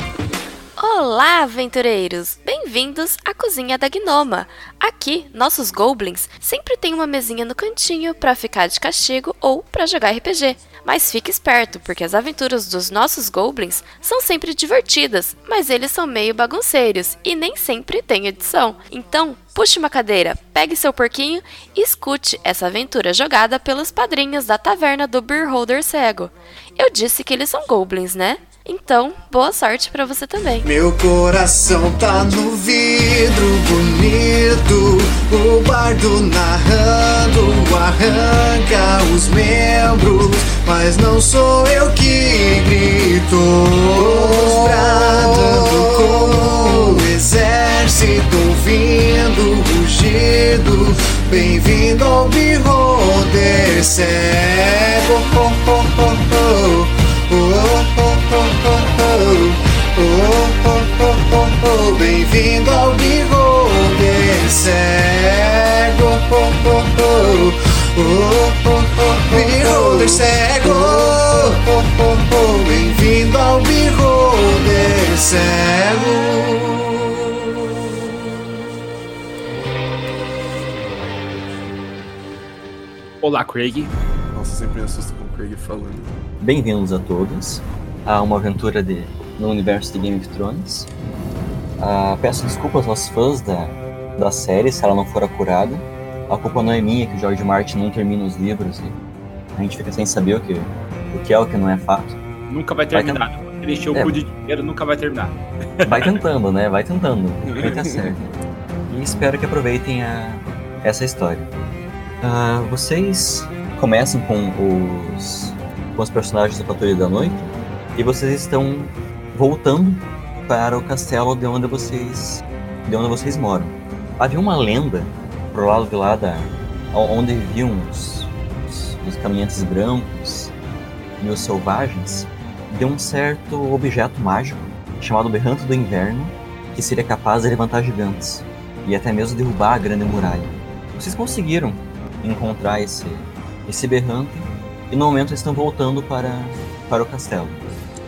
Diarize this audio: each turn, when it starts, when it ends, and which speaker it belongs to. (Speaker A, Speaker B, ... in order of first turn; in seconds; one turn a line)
Speaker A: 0.8-30.7
Speaker B: 30.6-77.7
Speaker C: 83.2-83.9
Speaker D: 84.3-86.1
Speaker E: 86.4-90.9
Speaker E: 91.8-99.0
Speaker E: 99.5-102.2
Speaker C: 102.5-106.1
Speaker E: 102.9-103.2
Speaker E: 103.9-104.2
Speaker E: 105.8-108.3
Speaker D: 107.5-108.0
Speaker E: 108.9-111.5
Speaker E: 112.2-130.5
Speaker E: 131.2-147.7